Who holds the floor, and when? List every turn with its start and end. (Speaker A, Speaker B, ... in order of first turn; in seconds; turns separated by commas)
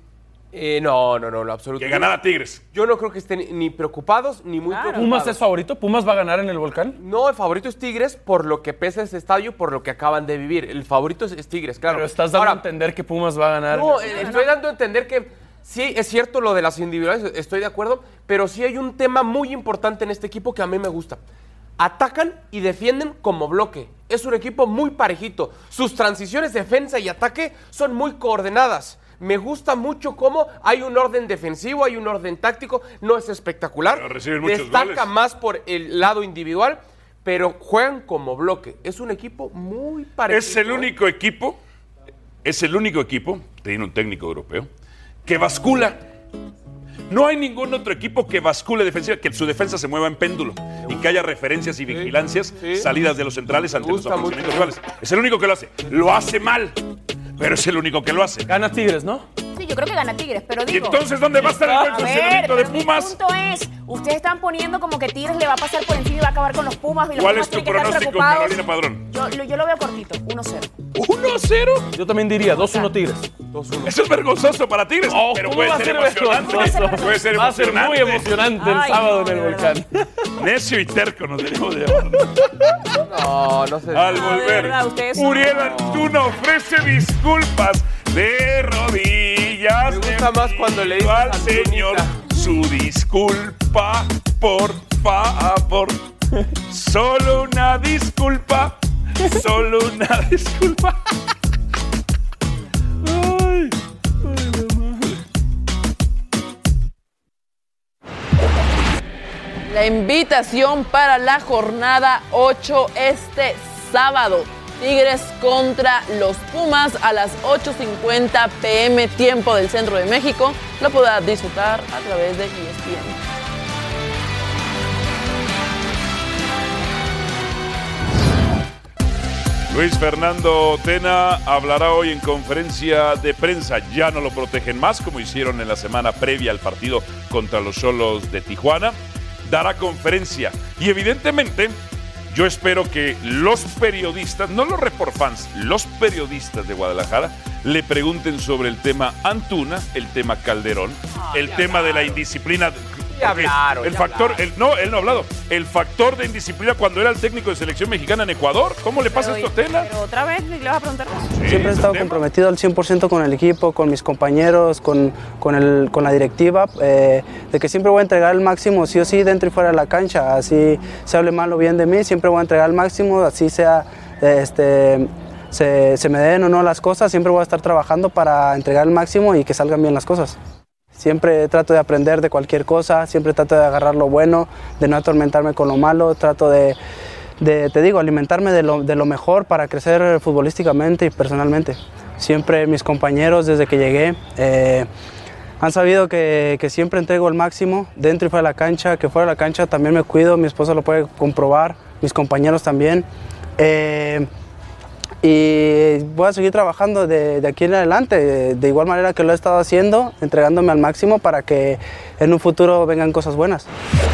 Speaker A: 0.5-2.1, Speaker B: 1.8-2.6, Speaker A: 2.7-5.4, Speaker C: 4.7-5.1, Speaker D: 5.0-7.0, Speaker A: 7.0-12.6, Speaker D: 11.8-14.3, Speaker A: 13.7-21.2, Speaker C: 14.1-14.5, Speaker A: 21.8-40.9, Speaker B: 33.9-35.1, Speaker B: 40.3-41.6, Speaker B: 42.4-44.7, Speaker B: 45.3-46.0, Speaker B: 47.1-56.8, Speaker A: 52.6-52.9, Speaker A: 53.8-54.7, Speaker B: 57.4-58.5, Speaker D: 58.5-59.3, Speaker C: 59.5-70.7, Speaker B: 60.7-63.1, Speaker B: 67.2-69.1, Speaker B: 70.9-71.9, Speaker D: 71.9-73.3, Speaker C: 72.5-72.9, Speaker A: 73.5-74.0, Speaker B: 73.8-78.3, Speaker D: 75.0-80.0, Speaker C: 76.4-77.2, Speaker C: 78.6-79.8, Speaker B: 80.4-82.4, Speaker A: 83.0-84.4, Speaker B: 83.9-96.0, Speaker C: 84.1-86.0, Speaker A: 89.9-92.2, Speaker B: 96.7-101.0, Speaker B: 103.0-105.2, Speaker E: 109.7-123.2, Speaker B: 129.7-141.8, Speaker B: 142.3-159.9, Speaker C: 151.5-152.0, Speaker A: 153.2-154.4, Speaker C: 159.1-161.3, Speaker B: 161.3-162.2, Speaker F: 161.4-180.4, Speaker F: 180.9-186.8, Speaker F: 187.4-194.9, Speaker F: 195.6-203.1, Speaker F: 203.6-204.3, Speaker F: 205.2-213.7